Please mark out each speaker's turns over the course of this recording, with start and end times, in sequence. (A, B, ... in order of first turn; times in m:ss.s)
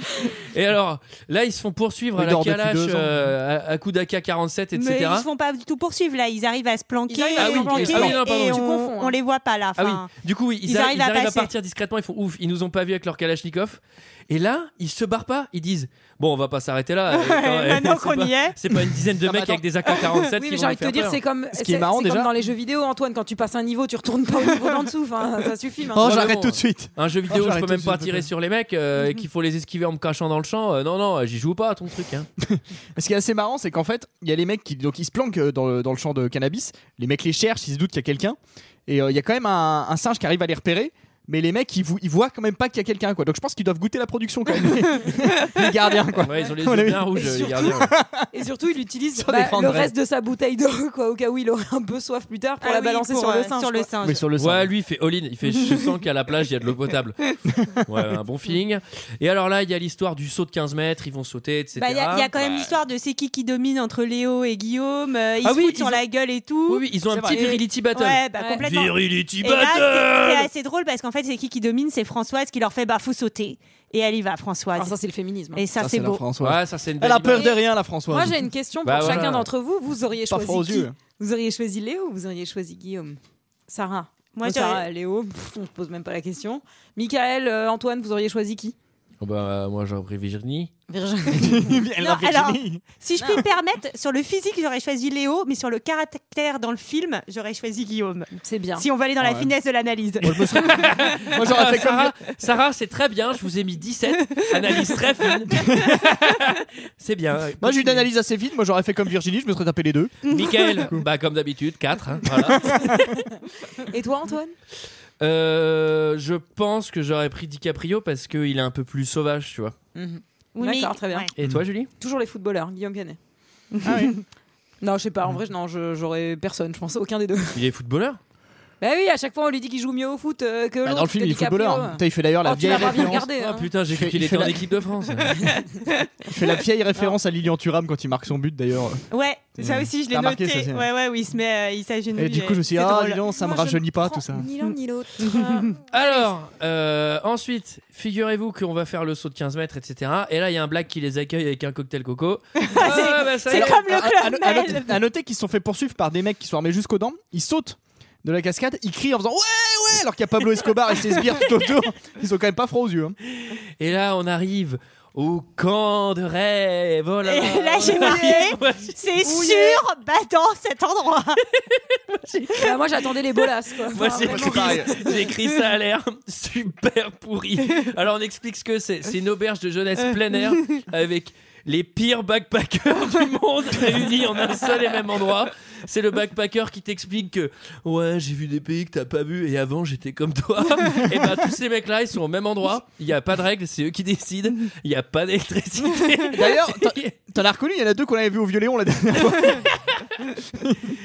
0:00.3-0:05.3 A
0:02.2-0:03.3 B
0:04.8-0:10.1 C
0:07.1-0:09.2 D
0:07.4-0:08.6 A
0:09.8-0:21.2 A
0:10.6-0:11.5 C
0:17.1-0:18.6 C
0:19.2-0:19.6 B
0:20.4-0:26.1 D
0:21.5-0:22.3 B
0:25.9-0:28.3 B
0:26.0-0:32.3 A
0:32.4-0:48.3 B
0:46.2-0:47.9 A
0:47.2-0:47.8 D
0:48.3-0:53.9 D
0:49.2-0:49.9 B
0:52.6-0:54.2 C
0:54.0-0:54.7 B
0:54.4-0:57.2 A
0:57.8-1:02.3 A
1:01.8-1:15.0 C
1:02.4-1:02.7 B
1:05.4-1:06.0 A
1:06.7-1:10.5 A
1:07.1-1:07.5 B
1:08.4-1:08.6 D
1:14.8-1:15.6 D
1:15.6-1:16.2 C
1:15.8-1:18.4 B
1:16.4-1:17.5 A
1:18.1-1:28.8 D
1:18.8-1:19.5 A
1:19.0-1:19.2 B
1:20.3-1:21.0 B
1:24.4-1:24.9 C
1:29.2-1:30.7 A
1:30.9-1:31.8 D
1:31.3-1:32.8 B
1:32.0-1:40.8 C
1:33.2-1:33.4 D
1:38.4-1:38.9 D
1:39.2-1:39.5 B
1:40.2-1:42.2 B
1:40.5-1:48.1 A
1:47.6-1:51.0 B
1:50.3-1:52.9 A
1:52.4-1:53.0 B
1:53.9-1:54.5 D
1:55.2-1:59.8 A
2:00.0-2:01.3 D
2:00.6-2:01.3 C
2:01.4-2:01.9 A
2:02.0-2:03.2 D
2:03.8-2:04.1 C
2:03.8-2:04.1 B
2:04.8-2:07.6 D
2:07.5-2:08.2 A
2:08.8-2:13.7 D
2:10.8-2:13.3 B
2:13.0-2:15.4 A
2:13.9-2:14.6 B
2:16.3-2:19.0 B
2:19.1-2:23.2 C
2:19.6-2:20.9 B
2:22.2-2:24.5 B
2:23.3-2:26.3 D
2:24.6-2:25.7 C
2:25.9-2:33.9 A
2:32.6-2:35.0 C
2:32.8-2:33.2 D
2:33.5-2:43.2 B
2:43.4-2:49.0 A
2:47.2-2:51.4 C
2:47.9-2:48.4 B
2:49.2-2:49.8 D
2:51.7-2:52.7 A
2:52.6-2:55.3 D
2:53.9-3:17.2 A
2:54.0-2:55.0 B
3:16.3-3:19.7 B
3:20.6-3:20.9 B